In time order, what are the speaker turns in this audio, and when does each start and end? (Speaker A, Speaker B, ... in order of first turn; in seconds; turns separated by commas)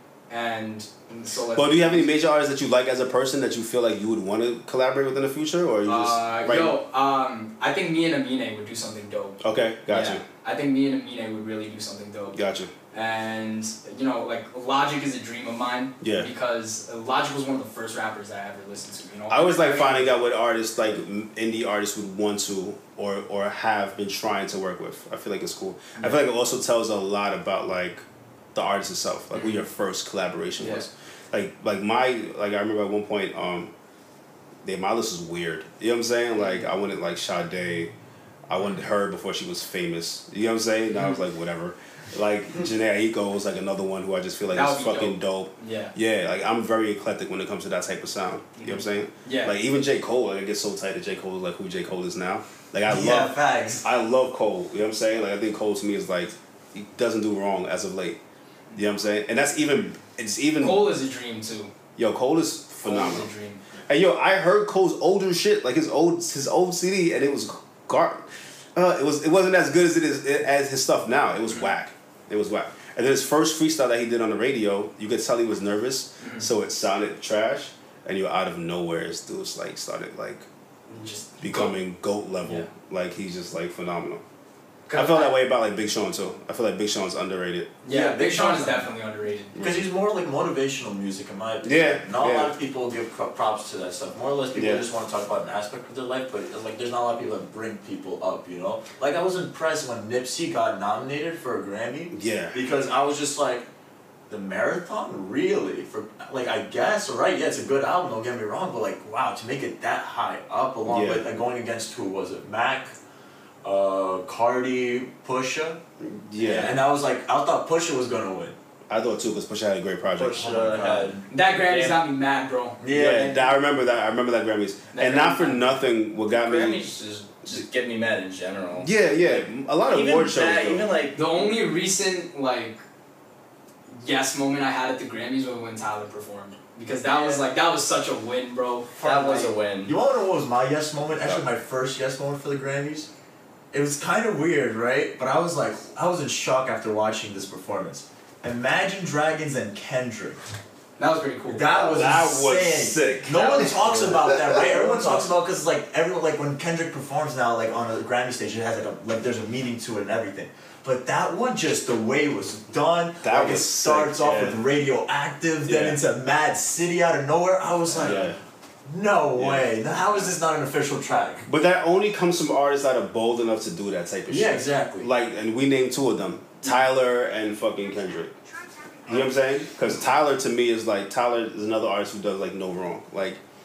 Speaker A: 0.3-2.1, Speaker B: 1.6-6.8, Speaker A: 5.8-12.4, Speaker B: 9.4-10.2, Speaker B: 12.3-12.7, Speaker A: 12.9-20.2, Speaker B: 16.0-16.3, Speaker B: 19.3-33.7, Speaker A: 29.3-29.6, Speaker B: 34.6-37.9, Speaker A: 36.4-36.7, Speaker B: 38.5-58.2, Speaker A: 40.9-41.2, Speaker A: 44.5-45.9, Speaker A: 48.6-49.5, Speaker C: 52.9-53.9, Speaker B: 58.8-60.9, Speaker A: 60.6-61.7, Speaker B: 62.0-63.3, Speaker A: 62.8-63.6, Speaker B: 63.9-80.5, Speaker A: 76.2-76.5, Speaker A: 80.9-81.8, Speaker B: 81.4-84.2, Speaker A: 84.9-85.4, Speaker B: 84.9-87.7, Speaker A: 87.8-89.5, Speaker C: 87.9-88.9, Speaker B: 89.5-89.9, Speaker C: 89.6-103.7, Speaker B: 91.6-92.5, Speaker B: 94.5-94.8, Speaker B: 102.1-102.6, Speaker C: 104.3-113.0, Speaker B: 110.9-111.3, Speaker C: 113.6-115.8, Speaker B: 116.0-116.8, Speaker A: 116.4-116.8, Speaker C: 116.5-118.6, Speaker B: 118.9-120.5, Speaker D: 120.2-122.0, Speaker C: 120.3-121.3, Speaker A: 121.3-122.8, Speaker C: 122.8-123.4, Speaker B: 122.9-126.9, Speaker A: 124.9-125.8, Speaker D: 126.3-131.6, Speaker B: 128.8-130.9, Speaker A: 131.2-132.8, Speaker A: 133.9-139.5, Speaker D: 137.1-137.4, Speaker C: 139.0-143.1, Speaker D: 139.0-139.9, Speaker C: 143.7-150.4, Speaker A: 151.0-151.7, Speaker C: 151.5-168.3, Speaker B: 151.7-155.3, Speaker B: 163.2-164.6, Speaker B: 165.7-166.0, Speaker B: 168.0-168.4, Speaker C: 168.9-171.5, Speaker B: 169.4-169.7, Speaker B: 171.5-178.3, Speaker C: 174.3-175.1, Speaker B: 179.1-183.4